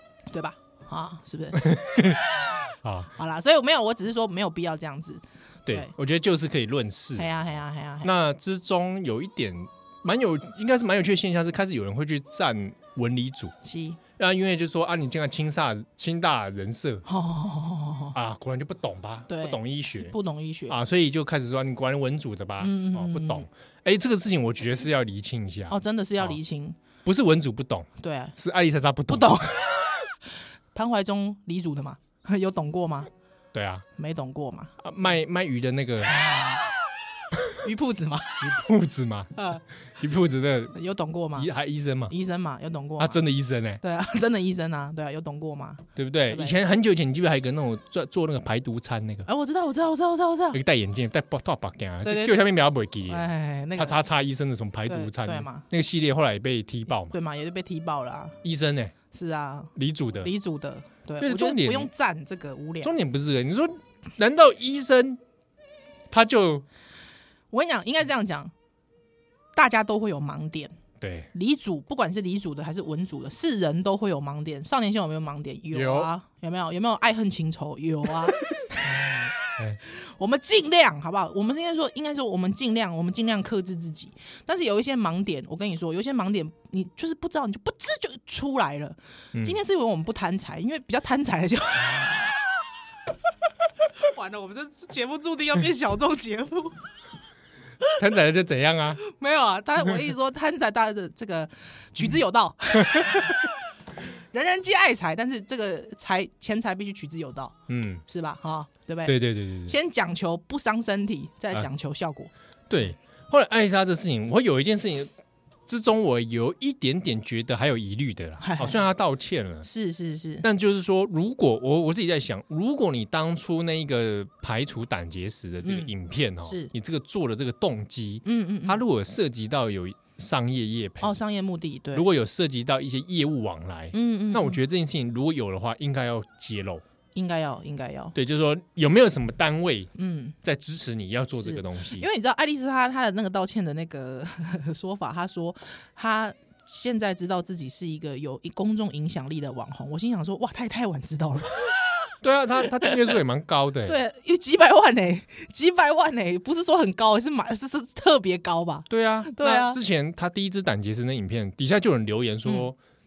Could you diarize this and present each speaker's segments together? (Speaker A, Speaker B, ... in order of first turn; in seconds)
Speaker A: 0.3-2.5, 3.2-5.9, 7.2-8.1, 13.6-14.0, 17.1-18.1, 19.3-20.8, 22.6-23.5, 25.7-26.8, 28.0-28.4, 29.1-30.1, 30.7-33.1, 34.0-34.7, 37.6-38.5, 39.4-39.6, 40.8-41.5, 42.1-43.2, 43.8-46.6, 49.3-50.6, 52.0-52.4, 53.1-54.0, 54.9-55.6, 57.1-58.4, 59.1-62.9, 67.5-68.5, 69.5-70.8, 71.3-79.3, 79.8-92.4, 94.0-96.8, 99.0-103.6, 104.3-107.5, 108.1-112.3, 118.4-118.8, 119.6-120.5, 125.6-125.9, 128.2-128.8, 131.0-132.1, 133.9-134.6, 137.2-138.2, 140.0-140.4, 141.4-152.0, 152.7-153.0, 153.8-159.8
Speaker B: 1.6-2.2, 2.8-3.1, 5.7-7.3, 8.0-13.5, 14.2-17.0, 18.1-20.1, 20.7-26.4, 27.1-29.4, 33.5-33.9, 34.8-36.2, 38.4-39.3, 40.0-40.8, 41.4-42.1, 43.0-43.8, 46.0-49.3, 50.5-57.1, 58.4-58.9, 59.8-60.3, 61.2-61.9, 62.8-65.2, 66.1-66.7, 71.0-71.3, 75.7-76.1, 78.8-79.8, 89.3-89.6, 98.0-99.0, 107.7-108.0, 109.1-109.8, 112.7-115.1, 115.7-119.7, 120.4-131.2, 131.9-136.8, 138.1-139.9, 140.4-142.1, 152.2-154.0, 158.9-162.8